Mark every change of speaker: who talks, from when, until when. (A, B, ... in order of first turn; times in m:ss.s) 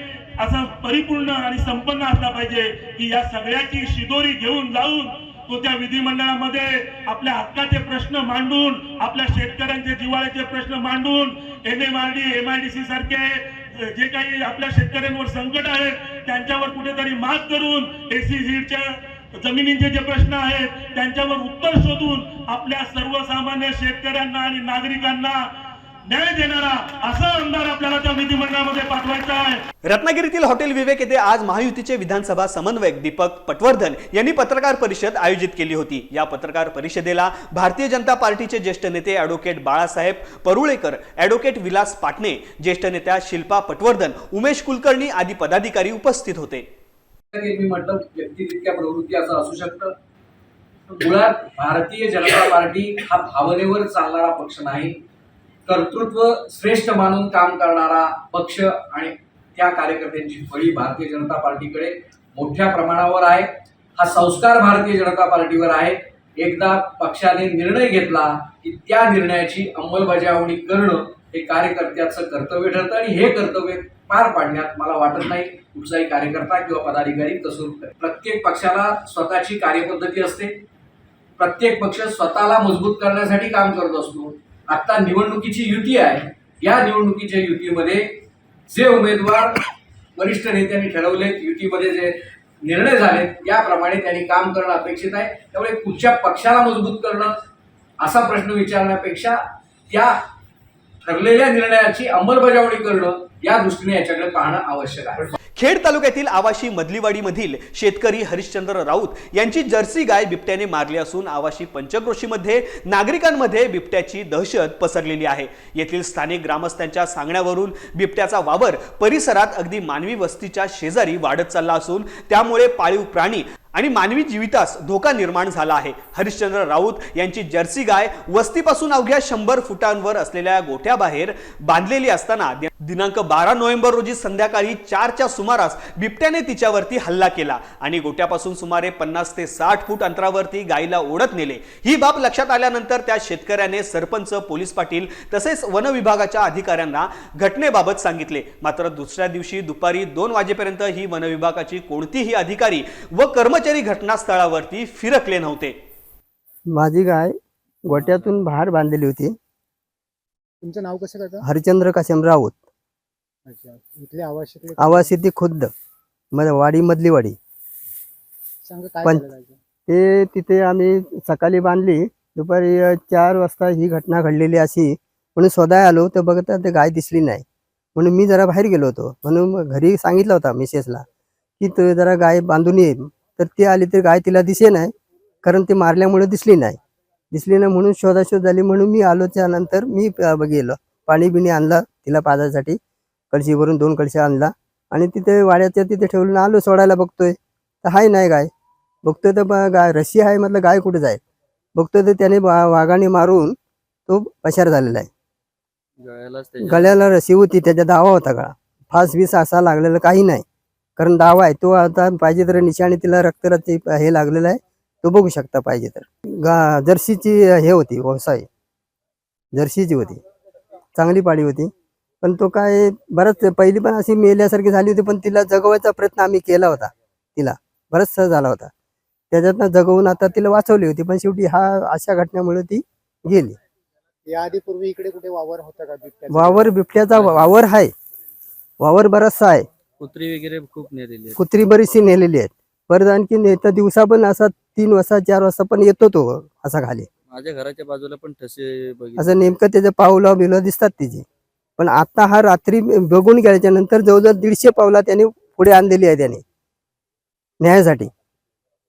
0:00.4-0:13.4 A
0:13.9-0:18.8 A
0:19.4-0:25.4 A
0:26.1-0:29.6 A
0:29.9-0:46.6 B
0:47.3-0:49.9 C
0:51.0-0:55.0 C
0:55.7-1:20.6 C
1:21.4-1:28.0 C
1:28.7-1:29.6 C
1:30.2-1:37.4 C
1:38.0-1:39.4 C
1:41.0-1:45.3 C
1:45.6-2:35.7 B
2:36.7-2:37.3 D
2:37.8-2:39.3 D
2:40.6-2:41.4 E
2:41.4-2:42.5 D
2:43.4-2:45.2 E
2:44.8-2:45.7 D
2:46.3-2:47.4 D
2:48.6-2:49.6 E
2:49.9-2:57.4 D
2:58.0-3:01.0 D
3:01.6-3:04.9 D
3:05.4-3:06.8 D
3:07.3-3:12.8 D
3:13.3-3:18.5 D
3:19.0-3:21.2 D
3:21.7-3:23.5 D
3:24.1-3:25.1 D
3:26.0-3:27.0 F
3:26.6-3:30.4 D
3:31.0-3:38.4 D
3:39.5-3:40.2 D
3:41.0-3:41.7 D
3:42.2-3:48.7 D
3:49.3-3:53.6 D
3:54.2-3:56.7 E
3:56.3-3:57.9 D
3:57.1-3:57.6 F
3:58.8-3:59.6 D
4:00.0-4:01.4 F
4:01.4-4:07.1 D
4:07.3-4:09.6 F
4:09.2-4:11.2 D
4:11.8-4:16.4 D
4:17.6-4:18.1 D